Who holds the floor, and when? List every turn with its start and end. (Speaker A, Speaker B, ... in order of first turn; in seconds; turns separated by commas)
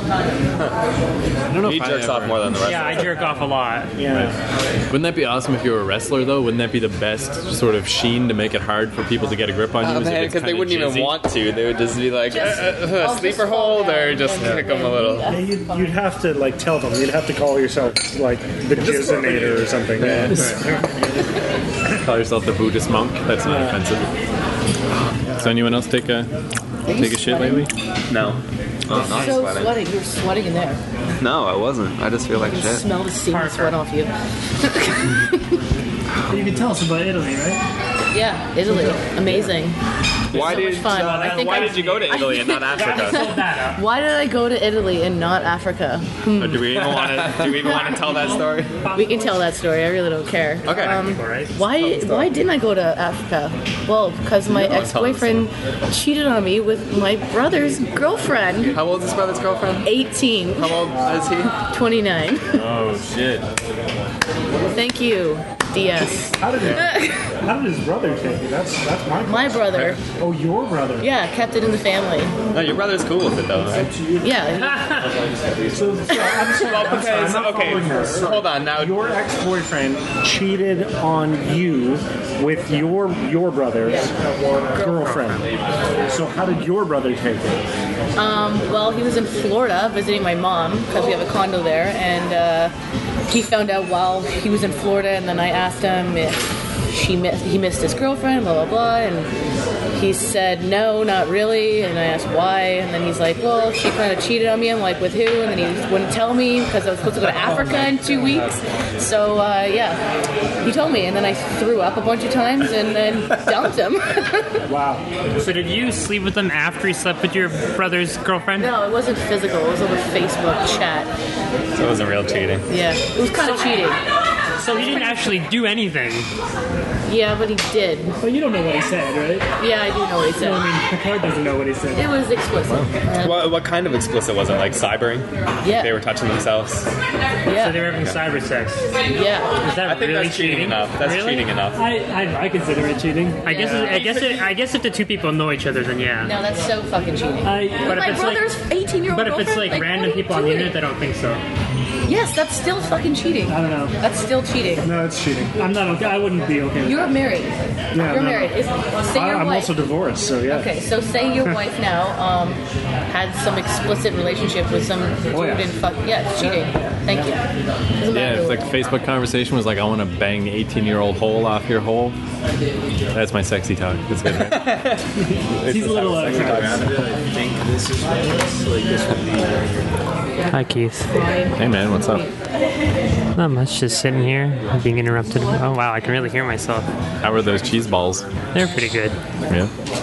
Speaker A: 1.5-2.5, Speaker B: 1.6-3.1, Speaker C: 2.6-4.0, Speaker D: 4.0-4.4, Speaker A: 4.9-11.2, Speaker B: 9.8-15.3, Speaker E: 12.3-16.0, Speaker D: 15.3-20.9, Speaker B: 19.0-20.6, Speaker A: 19.0-19.5, Speaker A: 20.0-20.6, Speaker A: 21.9-24.1, Speaker D: 23.4-23.8, Speaker A: 25.3-26.3, Speaker E: 26.9-27.7, Speaker A: 26.9-27.7, Speaker B: 28.1-29.8, Speaker E: 29.1-30.8, Speaker B: 31.2-32.9, Speaker E: 32.4-35.6, Speaker C: 33.3-33.8, Speaker B: 36.1-36.5, Speaker F: 36.3-37.6, Speaker E: 38.1-39.8, Speaker B: 40.3-43.4, Speaker E: 40.3-46.8, Speaker C: 41.0-42.1, Speaker C: 42.7-43.8, Speaker B: 46.4-48.8, Speaker A: 47.0-47.4, Speaker C: 47.9-49.5, Speaker E: 48.9-58.8, Speaker C: 50.6-51.5, Speaker B: 50.6-51.0, Speaker B: 51.8-52.2, Speaker B: 54.5-55.5, Speaker B: 58.7-60.0, Speaker E: 59.8-60.9, Speaker B: 60.5-61.5, Speaker E: 61.6-62.6, Speaker A: 62.5-63.5, Speaker E: 64.7-67.2, Speaker D: 66.4-71.1, Speaker B: 66.6-66.9, Speaker E: 69.2-70.0, Speaker E: 71.0-72.3, Speaker B: 72.5-73.9, Speaker D: 73.8-74.5, Speaker E: 74.2-75.1, Speaker C: 74.6-75.2, Speaker D: 75.7-84.1, Speaker B: 76.4-79.1, Speaker E: 83.8-84.1, Speaker D: 84.7-85.5, Speaker C: 84.8-85.5, Speaker D: 86.1-87.7, Speaker E: 88.2-92.7, Speaker E: 93.3-99.3, Speaker E: 99.9-110.0, Speaker A: 107.2-108.6, Speaker E: 110.6-114.6, Speaker D: 114.7-115.0, Speaker C: 115.3-118.7, Speaker E: 118.6-121.1, Speaker B: 121.7-122.7, Speaker E: 122.7-124.0, Speaker C: 123.4-123.8, Speaker C: 124.6-126.3, Speaker E: 127.1-128.2, Speaker F: 128.2-129.5, Speaker E: 129.6-130.7, Speaker F: 130.4-132.1, Speaker E: 131.9-133.5, Speaker B: 133.2-136.9, Speaker E: 135.6-136.0, Speaker E: 137.5-137.9, Speaker C: 137.6-138.9, Speaker E: 139.1-139.6, Speaker C: 139.6-141.5, Speaker B: 139.8-141.8, Speaker F: 141.7-144.4, Speaker C: 143.4-146.3, Speaker E: 146.2-150.8, Speaker F: 147.4-148.1, Speaker C: 147.9-148.5, Speaker C: 149.1-151.4, Speaker E: 152.1-154.9, Speaker F: 153.5-153.9, Speaker D: 154.8-155.6, Speaker F: 155.6-157.1, Speaker E: 156.8-159.8, Speaker D: 157.9-158.6, Speaker D: 159.1-160.7, Speaker E: 160.5-167.5, Speaker D: 165.3-165.6, Speaker E: 168.0-168.7, Speaker A: 168.1-172.2, Speaker A: 173.1-174.7, Speaker B: 174.3-177.0, Speaker F: 175.6-176.8, Speaker A: 175.8-177.3, Speaker D: 178.2-179.1, Speaker C: 180.5-181.2, Speaker E: 181.1-182.3, Speaker A: 181.6-182.3, Speaker C: 183.3-186.9, Speaker A: 187.2-188.3, Speaker C: 188.5-189.2, Speaker A: 189.5-189.7